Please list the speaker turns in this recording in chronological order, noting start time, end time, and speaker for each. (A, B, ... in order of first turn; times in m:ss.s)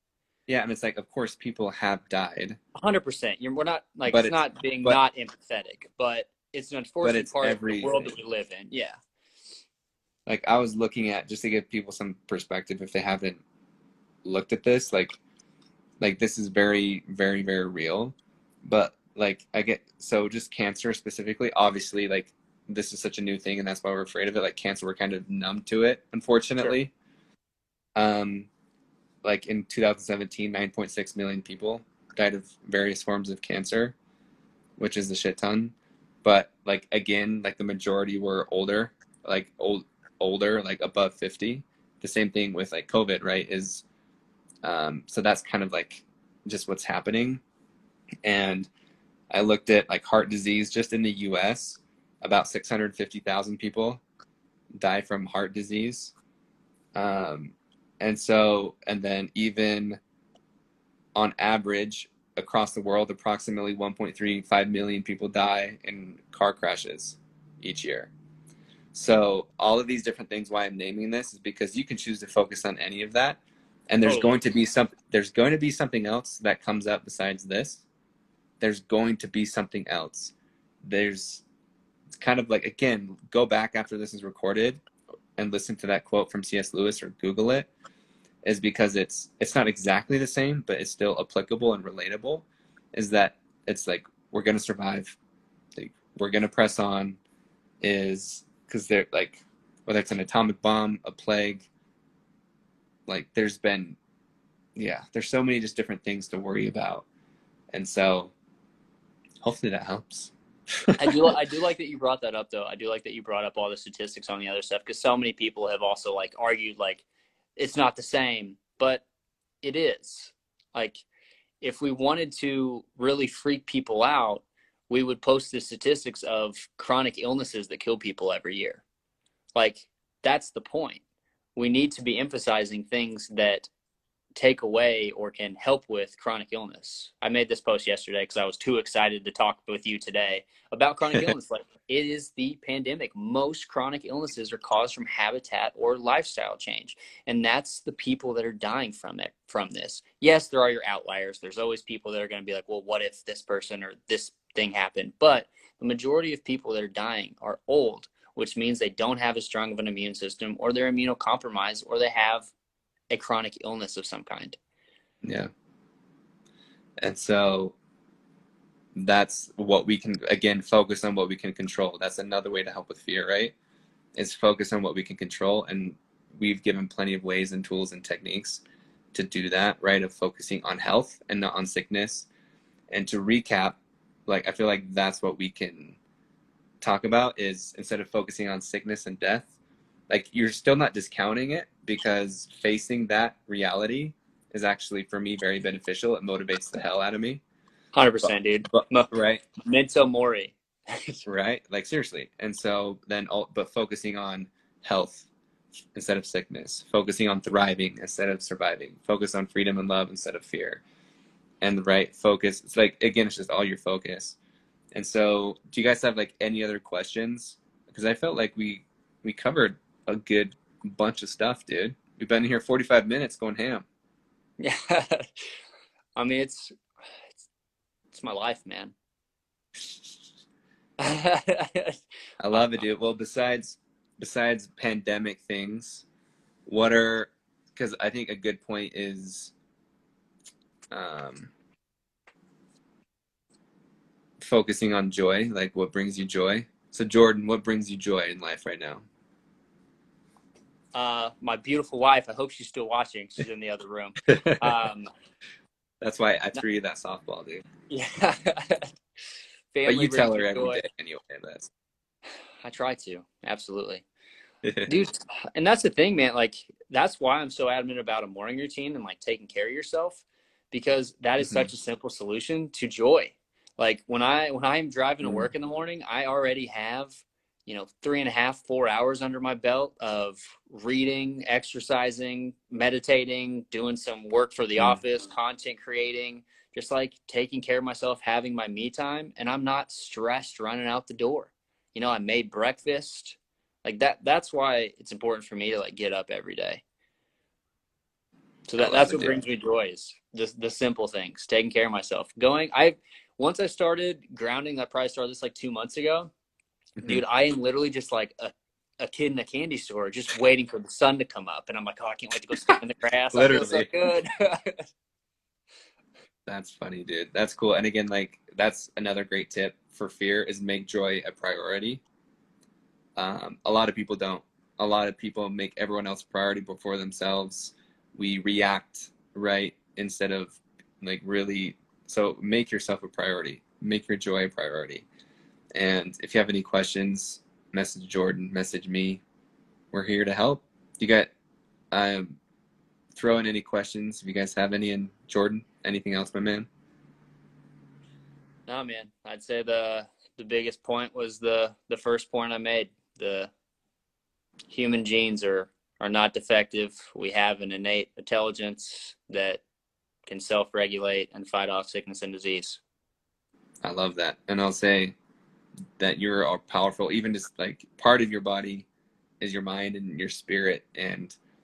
0:00.5-0:02.6 A
0:02.8-0:09.0 B
0:04.0-0:05.0 A
0:07.0-0:08.1 A
0:10.2-0:13.4 A
0:14.2-0:15.2 A
0:16.0-0:26.9 A
0:28.0-0:28.5 A
0:29.2-0:33.9 A
0:34.8-0:43.8 A
0:44.6-0:47.4 A
0:48.2-0:48.7 A
0:49.3-0:54.0 A
0:54.8-0:56.1 A
0:56.9-1:00.0 A
1:01.1-1:08.1 A
1:08.9-1:17.8 A
1:14.0-1:14.4 B
1:18.6-1:21.4 A
1:22.1-1:24.8 A
1:25.4-1:27.7 A
1:28.4-1:35.2 A
1:35.8-1:37.2 A
1:37.8-1:41.7 A
1:43.1-1:44.0 A
1:44.8-1:47.0 A
1:47.7-1:48.3 A
1:49.4-1:50.3 A
1:50.9-1:51.4 A
1:51.0-1:57.0 B
1:57.6-1:59.0 B
1:59.6-2:01.0 B
2:01.6-2:08.8 B
2:09.5-2:11.0 B
2:11.6-2:13.7 B
2:14.4-2:42.5 B
2:43.1-2:44.6 B
2:45.2-2:45.5 A
2:47.0-2:47.8 A
2:48.9-2:53.5 A
2:54.1-2:58.6 A
2:59.1-3:02.3 A
3:02.9-3:06.0 A
3:06.8-3:09.5 A
3:10.1-3:17.4 A
3:17.9-3:21.2 B
3:18.2-3:19.4 A
3:21.2-3:25.3 A
3:25.9-3:30.8 A
3:31.6-3:34.4 A
3:34.9-3:43.8 A
3:44.6-3:45.5 B
3:46.2-3:46.8 B
3:48.1-3:48.9 B
3:51.0-3:52.0 B
3:52.4-3:56.0 A
3:56.6-3:59.5 A
4:00.9-4:01.5 A
4:04.4-4:09.1 A
4:10.9-4:15.1 B
4:14.3-4:14.8 A
4:16.0-4:17.6 A
4:17.9-4:18.9 B
4:19.7-4:20.8 B
4:19.8-4:21.7 A
4:22.6-4:24.0 B
4:24.6-4:25.0 A
4:24.8-4:56.8 B
4:31.4-4:31.7 A
4:35.2-4:35.5 A
4:58.7-5:06.3 B
4:58.8-4:59.4 A
5:07.0-5:14.9 B
5:13.3-5:13.9 A
5:16.5-5:22.0 A
5:23.2-5:35.0 A
5:35.7-5:39.2 A
5:39.9-5:41.3 A
5:41.9-5:42.4 A
5:43.1-5:46.7 A
5:48.7-5:53.5 B
5:54.7-5:59.6 B
6:00.3-6:02.8 B
6:03.8-6:05.1 A
6:06.0-6:08.9 A
6:09.4-6:11.4 A